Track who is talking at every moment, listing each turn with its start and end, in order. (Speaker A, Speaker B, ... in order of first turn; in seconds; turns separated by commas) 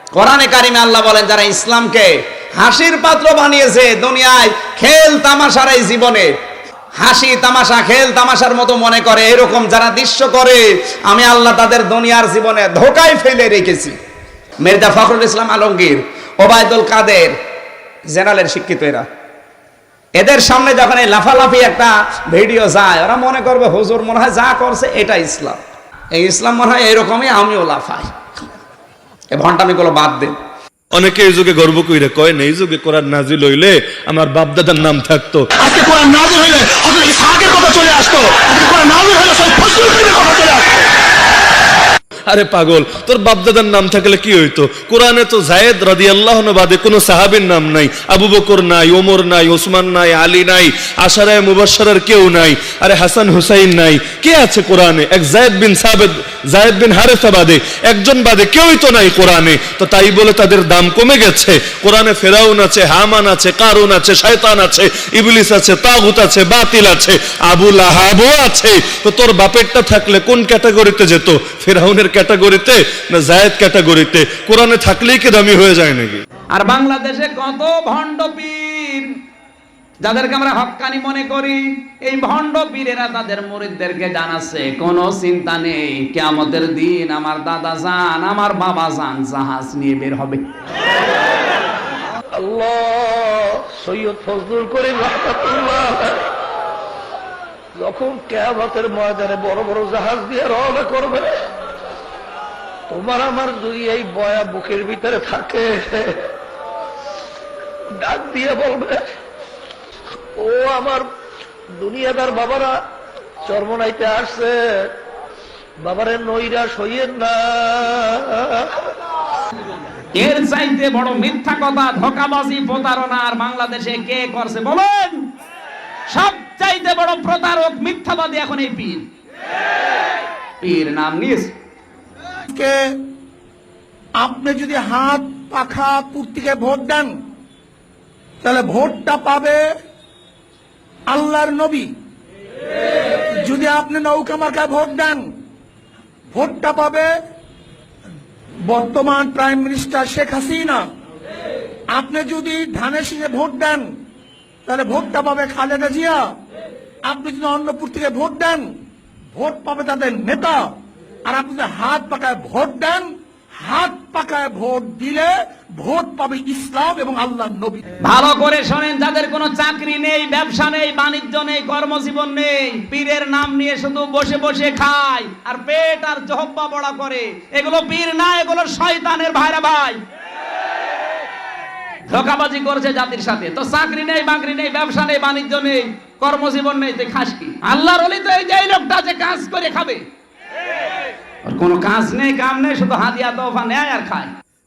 Speaker A: 0.2-6.3, Speaker A: 7.0-13.9, Speaker A: 14.6-17.3, Speaker A: 18.1-19.0, Speaker A: 20.2-25.6, Speaker A: 26.1-28.1, Speaker A: 29.3-30.3, Speaker B: 30.9-35.5, Speaker C: 35.6-40.8, Speaker B: 42.3-76.2, Speaker D: 76.5-79.0, Speaker D: 80.0-90.4, Speaker E: 92.4-96.2, Speaker E: 97.8-101.3, Speaker E: 102.9-106.2, Speaker E: 108.0-109.0, Speaker E: 110.4-111.0, Speaker E: 111.8-112.7, Speaker E: 113.4-114.9, Speaker E: 115.8-118.5, Speaker D: 120.2-125.2, Speaker D: 126.1-129.0, Speaker D: 130.6-131.5, Speaker C: 132.5-132.8, Speaker C: 134.2-137.2, Speaker C: 138.4-139.6, Speaker C: 141.1-141.9, Speaker C: 143.4-145.3, Speaker C: 146.3-147.1, Speaker C: 148.6-150.9, Speaker C: 151.9-153.9, Speaker C: 154.7-156.3, Speaker C: 157.0-158.7, Speaker C: 159.3-160.7, Speaker C: 161.2-163.1, Speaker C: 163.6-167.8, Speaker D: 168.1-180.0, Speaker D: 182.1-190.0, Speaker D: 191.6-194.1, Speaker A: 193.5-194.2